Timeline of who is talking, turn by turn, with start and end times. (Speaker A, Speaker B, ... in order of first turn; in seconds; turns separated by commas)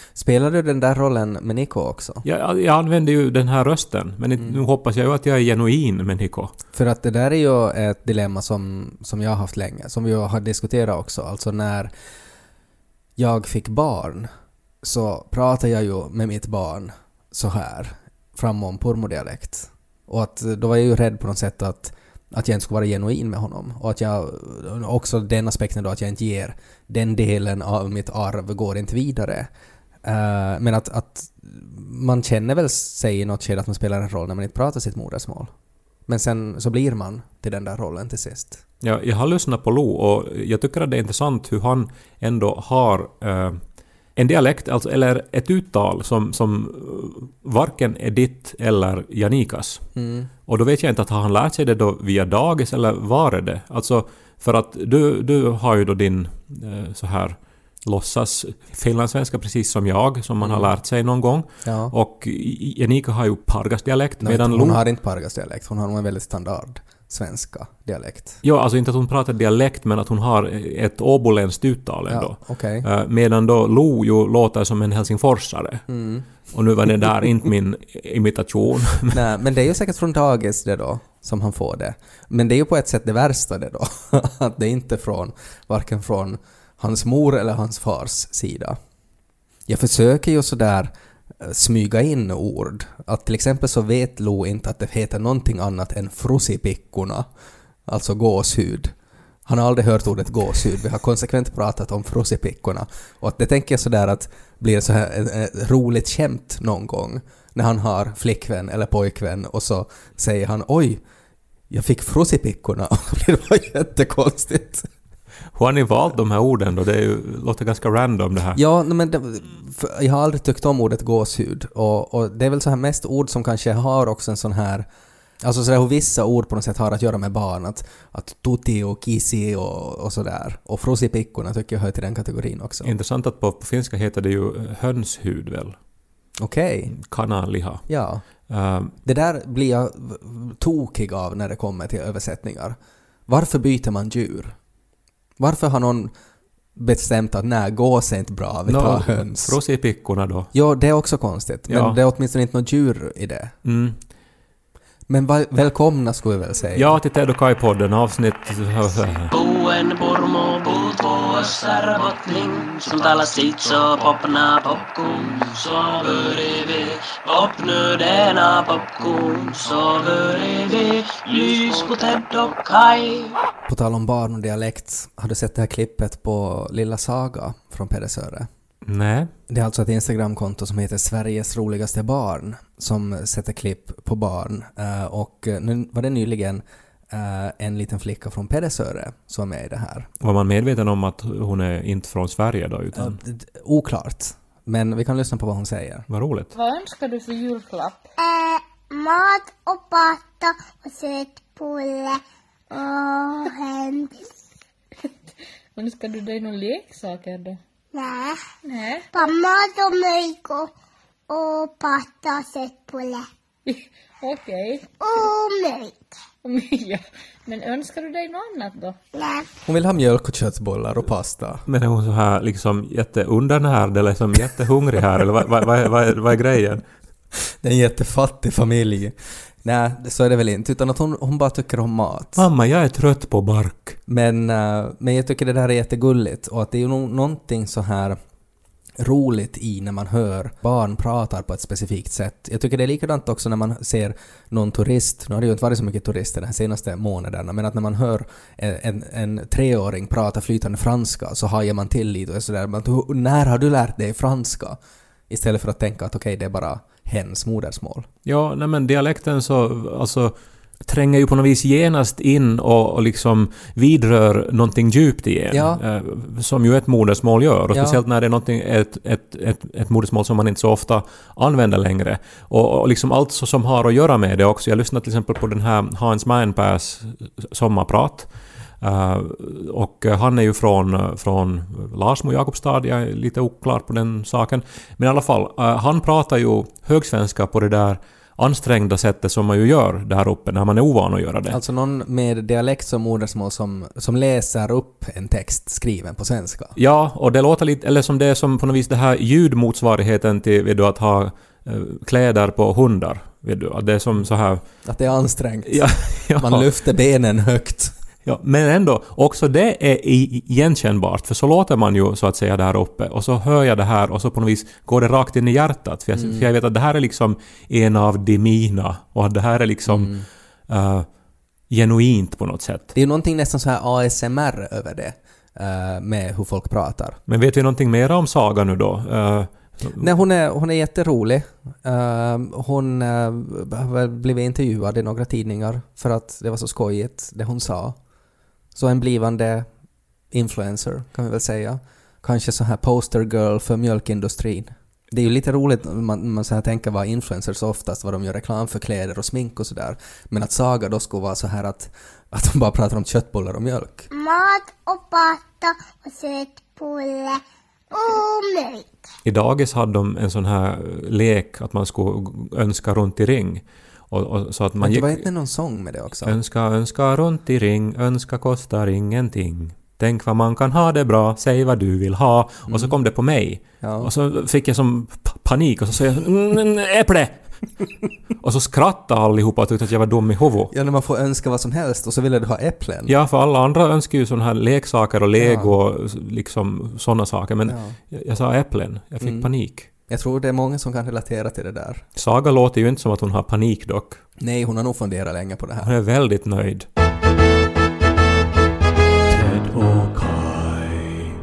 Speaker A: 0.1-2.2, Speaker B: 2.2-6.5, Speaker A: 6.7-11.9, Speaker A: 13.2-14.3, Speaker A: 14.8-29.5, Speaker A: 30.0-35.5, Speaker A: 36.1-38.6, Speaker B: 38.8-43.6, Speaker B: 44.1-49.8, Speaker A: 50.0-50.3, Speaker B: 50.5-64.8, Speaker A: 60.4-60.7, Speaker A: 61.6-61.9, Speaker A: 64.2-68.4, Speaker B: 68.4-75.9, Speaker A: 72.1-72.8, Speaker A: 75.9-76.3, Speaker B: 76.4-79.2, Speaker A: 79.1-88.8, Speaker A: 89.7-97.3, Speaker A: 97.9-98.9, Speaker A: 99.5-111.0, Speaker A: 111.7-114.9, Speaker B: 115.5-118.6, Speaker A: 118.5-124.8, Speaker A: 125.4-132.9, Speaker B: 132.8-135.8, Speaker A: 136.4-136.9, Speaker B: 136.9-137.9, Speaker A: 137.9-138.2, Speaker B: 138.4-138.9, Speaker A: 139.0-142.8, Speaker A: 143.3-144.6, Speaker A: 145.4-146.1, Speaker A: 146.8-149.6, Speaker B: 148.7-150.5, Speaker A: 150.5-153.5, Speaker B: 151.7-152.0, Speaker B: 153.6-154.0, Speaker A: 155.1-157.0, Speaker B: 156.7-159.3, Speaker C: 159.3-173.3, Speaker A: 173.7-178.5, Speaker B: 178.8-179.3, Speaker A: 179.5-190.1, Speaker B: 190.2-193.2, Speaker A: 192.9-196.1, Speaker B: 196.1-196.5, Speaker D: 196.5-198.0, Speaker E: 198.2-204.2, Speaker D: 205.7-207.6, Speaker E: 207.9-208.4, Speaker D: 208.6-209.1, Speaker E: 209.1-210.7, Speaker E: 211.3-213.2, Speaker D: 213.6-214.9, Speaker E: 215.0-216.0, Speaker D: 216.4-219.0, Speaker E: 219.2-219.4, Speaker A: 219.7-221.6, Speaker B: 221.7-226.8, Speaker A: 227.6-232.4, Speaker B: 232.3-234.0, Speaker A: 234.1-238.2, Speaker A: 239.0-254.8, Speaker A: 255.3-258.1, Speaker B: 258.2-291.6, Speaker A: 265.5-265.8, Speaker A: 267.7-268.0, Speaker A: 291.5-296.8, Speaker B: 296.8-304.6, Speaker A: 304.8-307.9, Speaker B: 305.6-306.7, Speaker B: 308.2-320.1, Speaker A: 316.1-316.5, Speaker A: 319.9-320.2, Speaker B: 320.7-321.1, Speaker B: 321.7-322.9, Speaker A: 322.9-327.2, Speaker B: 327.3-330.1, Speaker A: 330.0-338.0, Speaker A: 338.7-339.7, Speaker A: 340.3-354.1, Speaker E: 354.1-357.4, Speaker E: 357.9-358.9, Speaker B: 359.2-365.3, Speaker A: 364.8-366.4, Speaker B: 366.2-377.4, Speaker A: 372.7-372.9, Speaker A: 373.8-374.1, Speaker B: 378.4-380.7, Speaker A: 380.7-383.1, Speaker B: 383.1-389.9, Speaker A: 385.4-385.7, Speaker A: 387.6-388.0, Speaker A: 389.2-389.5, Speaker A: 390.1-392.0, Speaker B: 392.1-394.2, Speaker A: 394.4-395.9, Speaker B: 395.8-396.9, Speaker B: 399.3-401.2